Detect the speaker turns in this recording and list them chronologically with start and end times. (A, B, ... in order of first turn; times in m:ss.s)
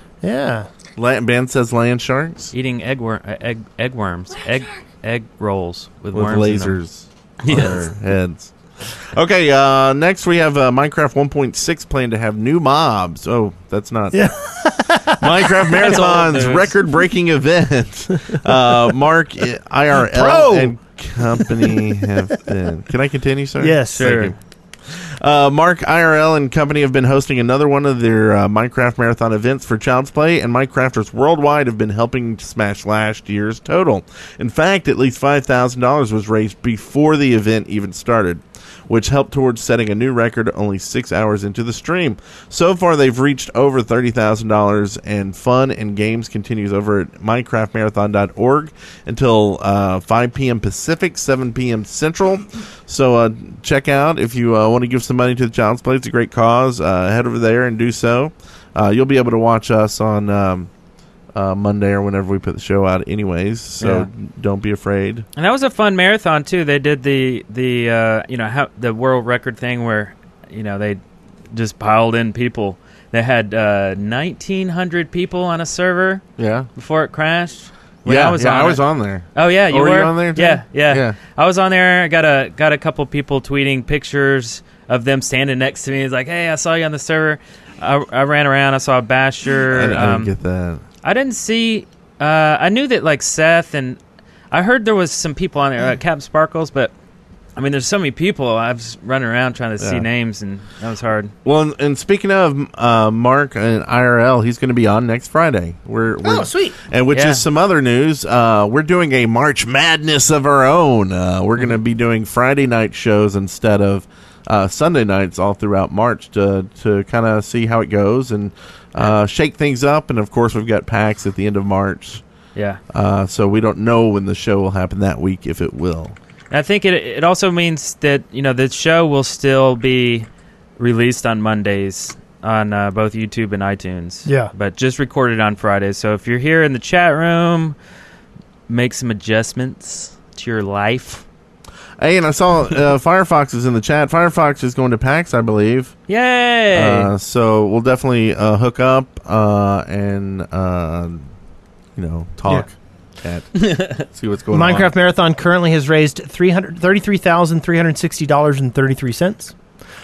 0:00.2-0:00.7 A
0:01.0-0:02.5 B
0:02.5-0:06.8 C
0:06.1-0:14.3 B
0:07.4-0:07.8 C
0:14.1-0:16.0 A
0:15.1-0:24.3 B
0:15.8-0:16.7 C
0:20.0-0:20.8 A
0:21.4-0:21.9 A
0:23.6-0:24.2 A
0:23.9-0:24.3 C
0:24.9-1:00.7 B
1:01.3-1:05.2 B
1:03.8-1:04.1 C
1:05.4-1:16.2 C
1:16.4-1:16.7 B
1:16.7-1:18.8 C
1:18.0-1:21.2 B
1:19.3-1:30.3 C
1:29.7-1:30.8 B
1:31.0-1:34.0 C
1:34.5-1:36.9 C
1:37.6-1:41.3 C
1:39.8-1:40.0 B
1:41.4-2:02.2 B
1:46.2-1:46.8 A
1:47.1-1:47.4 C
2:02.5-2:02.8 C
2:02.9-2:06.2 B
2:06.5-2:10.3 C
2:10.8-2:17.8 C
2:14.2-2:14.5 A
2:18.7-2:21.2 C
2:22.0-2:26.0 B
2:26.1-2:27.1 C
2:26.7-2:31.3 B
2:32.0-2:34.9 B
2:33.6-2:34.0 C
2:34.5-2:39.5 A